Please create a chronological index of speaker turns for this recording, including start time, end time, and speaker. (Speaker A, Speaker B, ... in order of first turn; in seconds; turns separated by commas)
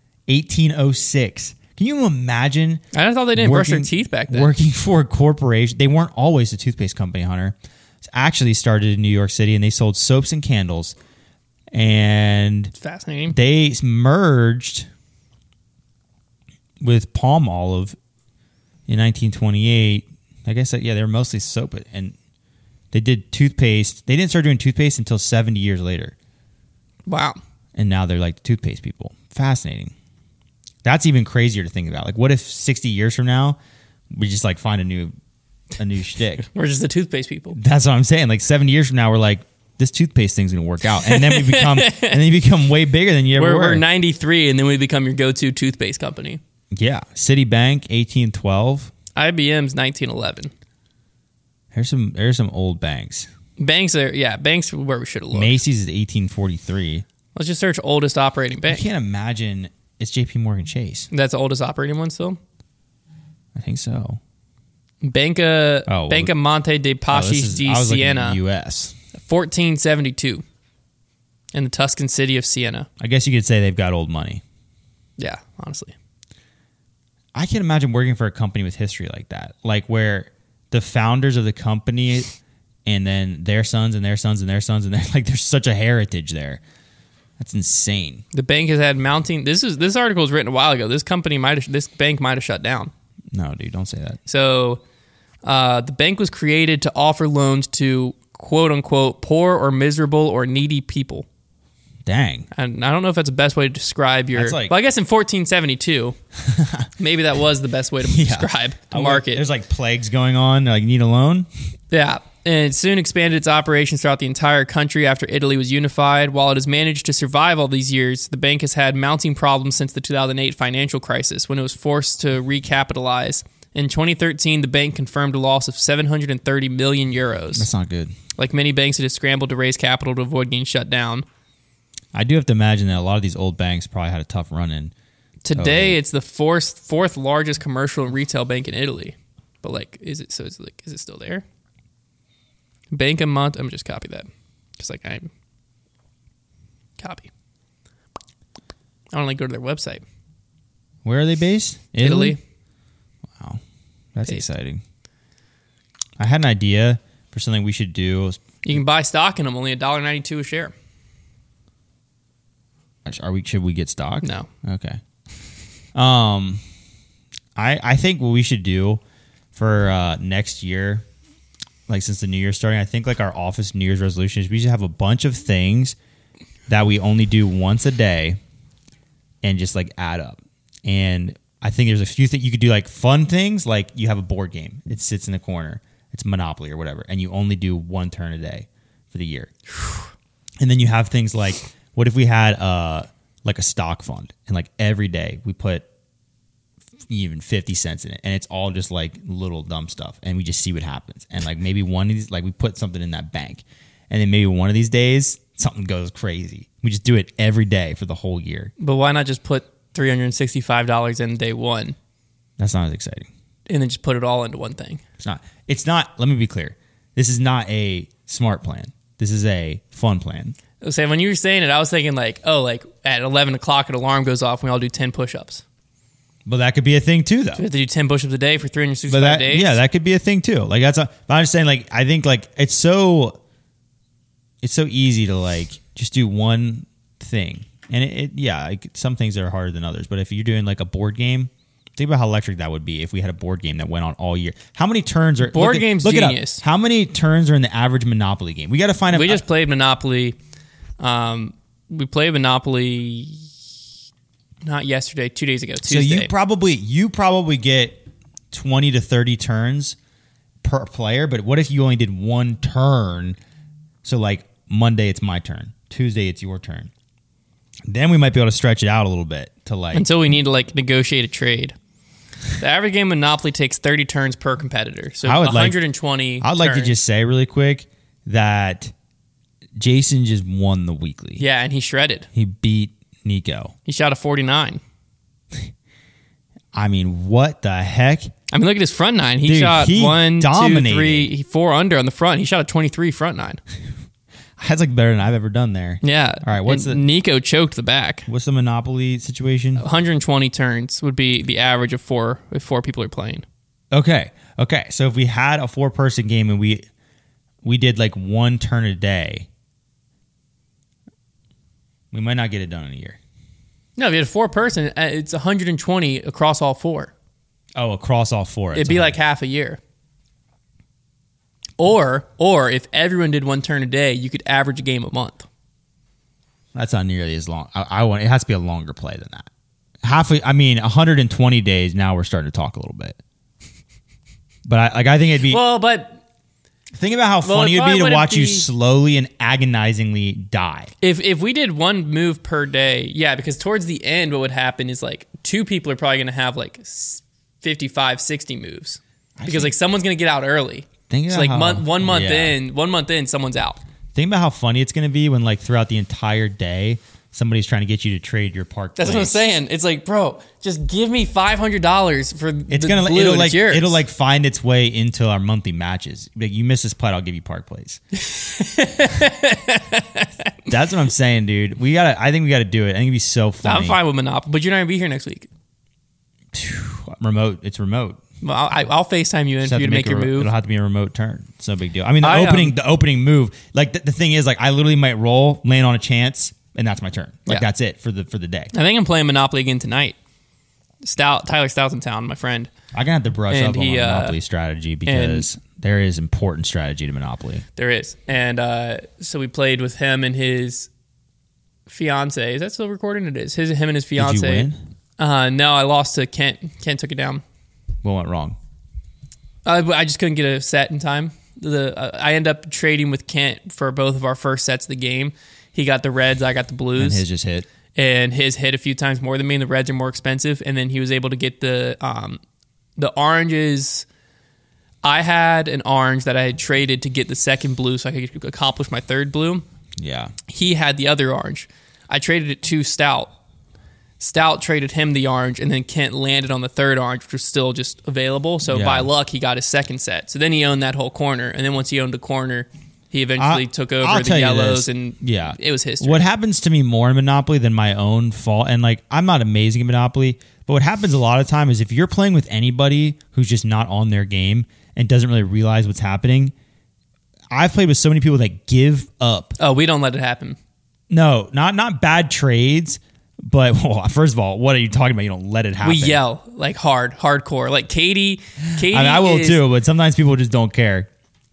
Speaker A: 0.3-2.8, Speaker B: 2.9-4.5, Speaker A: 3.3-10.9, Speaker A: 11.7-12.7, Speaker B: 12.8-13.4, Speaker A: 13.3-14.9, Speaker A: 16.8-17.9, Speaker A: 18.9-22.1, Speaker A: 22.9-26.1, Speaker B: 27.1-27.4, Speaker A: 27.7-29.9, Speaker A: 30.8-33.6, Speaker A: 34.1-35.1, Speaker A: 35.8-36.5, Speaker B: 36.5-37.6, Speaker A: 37.5-43.8, Speaker B: 41.0-42.2, Speaker B: 43.3-46.4, Speaker A: 46.7-48.9, Speaker B: 49.1-50.5, Speaker A: 51.7-53.3, Speaker B: 53.6-55.6, Speaker A: 55.3-57.0, Speaker B: 57.3-58.8, Speaker A: 58.7-61.1, Speaker B: 61.1-62.4, Speaker A: 63.5-64.2, Speaker B: 65.0-68.4, Speaker A: 65.9-66.3, Speaker A: 67.1-68.9, Speaker B: 69.2-70.4, Speaker B: 71.5-72.9, Speaker A: 73.0-74.4, Speaker B: 75.2-75.9, Speaker A: 77.3-82.3, Speaker A: 82.8-86.6, Speaker A: 87.4-88.2, Speaker B: 88.3-92.9, Speaker A: 93.3-94.2, Speaker B: 94.2-94.8, Speaker B: 95.4-101.2, Speaker A: 102.0-102.5, Speaker B: 102.5-106.2, Speaker A: 104.3-104.7, Speaker A: 106.4-106.9, Speaker B: 107.0-109.4, Speaker A: 108.0-111.5, Speaker B: 111.9-127.7, Speaker A: 127.5-128.1, Speaker B: 128.4-131.2, Speaker A: 132.1-134.9, Speaker B: 135.4-141.4, Speaker A: 135.5-136.0, Speaker B: 142.9-144.3, Speaker B: 144.8-145.3, Speaker B: 147.0-147.3, Speaker B: 149.1-150.0, Speaker A: 151.0-152.4, Speaker B: 152.0-152.4, Speaker A: 153.3-153.6, Speaker A: 154.1-154.8, Speaker A: 156.2-158.4, Speaker B: 158.6-160.7, Speaker A: 163.0-165.0, Speaker B: 164.2-164.5, Speaker A: 165.9-166.6, Speaker A: 167.6-169.0, Speaker A: 169.5-171.0, Speaker A: 171.9-175.9, Speaker A: 176.7-178.4, Speaker A: 179.4-189.5, Speaker A: 190.6-195.8, Speaker A: 197.1-208.7, Speaker B: 208.8-211.9, Speaker A: 212.6-213.3, Speaker B: 213.7-215.0, Speaker A: 215.2-220.6, Speaker B: 220.8-225.6, Speaker A: 226.4-227.6, Speaker B: 227.6-229.8, Speaker A: 229.1-233.4, Speaker A: 234.6-249.4, Speaker B: 245.4-246.6, Speaker B: 249.1-250.4, Speaker B: 251.0-253.5, Speaker B: 254.6-256.3, Speaker A: 255.8-260.0, Speaker A: 260.6-263.4, Speaker A: 264.0-266.9, Speaker A: 267.9-270.1, Speaker B: 269.9-271.7, Speaker B: 272.6-276.9, Speaker A: 275.2-275.8, Speaker A: 276.4-278.9, Speaker A: 279.8-281.4, Speaker B: 281.4-282.3, Speaker A: 282.3-283.7, Speaker B: 283.9-284.8, Speaker A: 286.7-288.3, Speaker B: 288.5-293.6, Speaker A: 289.4-291.3, Speaker A: 294.6-297.0, Speaker B: 296.0-298.3, Speaker A: 298.3-299.8, Speaker B: 299.8-303.4, Speaker A: 303.9-306.8, Speaker A: 307.6-309.5, Speaker A: 312.1-313.2, Speaker B: 314.0-317.1, Speaker A: 317.8-319.2, Speaker B: 318.7-319.8, Speaker B: 321.8-325.5, Speaker A: 326.7-329.5, Speaker A: 330.0-333.2, Speaker A: 334.6-335.6, Speaker B: 335.5-336.2, Speaker A: 336.9-340.9, Speaker B: 337.4-338.7, Speaker B: 341.0-353.8, Speaker A: 349.4-349.7, Speaker A: 351.1-352.6, Speaker A: 354.1-359.4, Speaker B: 359.0-364.0, Speaker A: 362.7-368.0, Speaker B: 368.1-370.5, Speaker A: 370.7-374.0, Speaker B: 373.6-375.5, Speaker A: 376.5-378.2, Speaker B: 378.4-380.5, Speaker A: 379.6-388.7, Speaker B: 382.2-382.7, Speaker B: 388.7-390.1, Speaker B: 391.0-392.7, Speaker A: 392.9-397.6, Speaker B: 393.5-394.4, Speaker B: 395.1-395.5, Speaker B: 397.8-400.9, Speaker B: 401.9-407.4, Speaker A: 404.2-404.8, Speaker A: 408.0-408.6, Speaker B: 409.6-417.2, Speaker A: 417.0-417.7, Speaker B: 417.9-422.4, Speaker B: 423.0-424.1, Speaker B: 425.0-429.6, Speaker A: 430.0-430.3, Speaker B: 430.5-433.3, Speaker B: 434.2-446.2, Speaker A: 438.7-439.1, Speaker A: 443.4-456.5, Speaker A: 457.5-459.6, Speaker B: 459.6-460.6, Speaker A: 461.1-466.2, Speaker B: 465.8-469.6, Speaker A: 468.8-471.1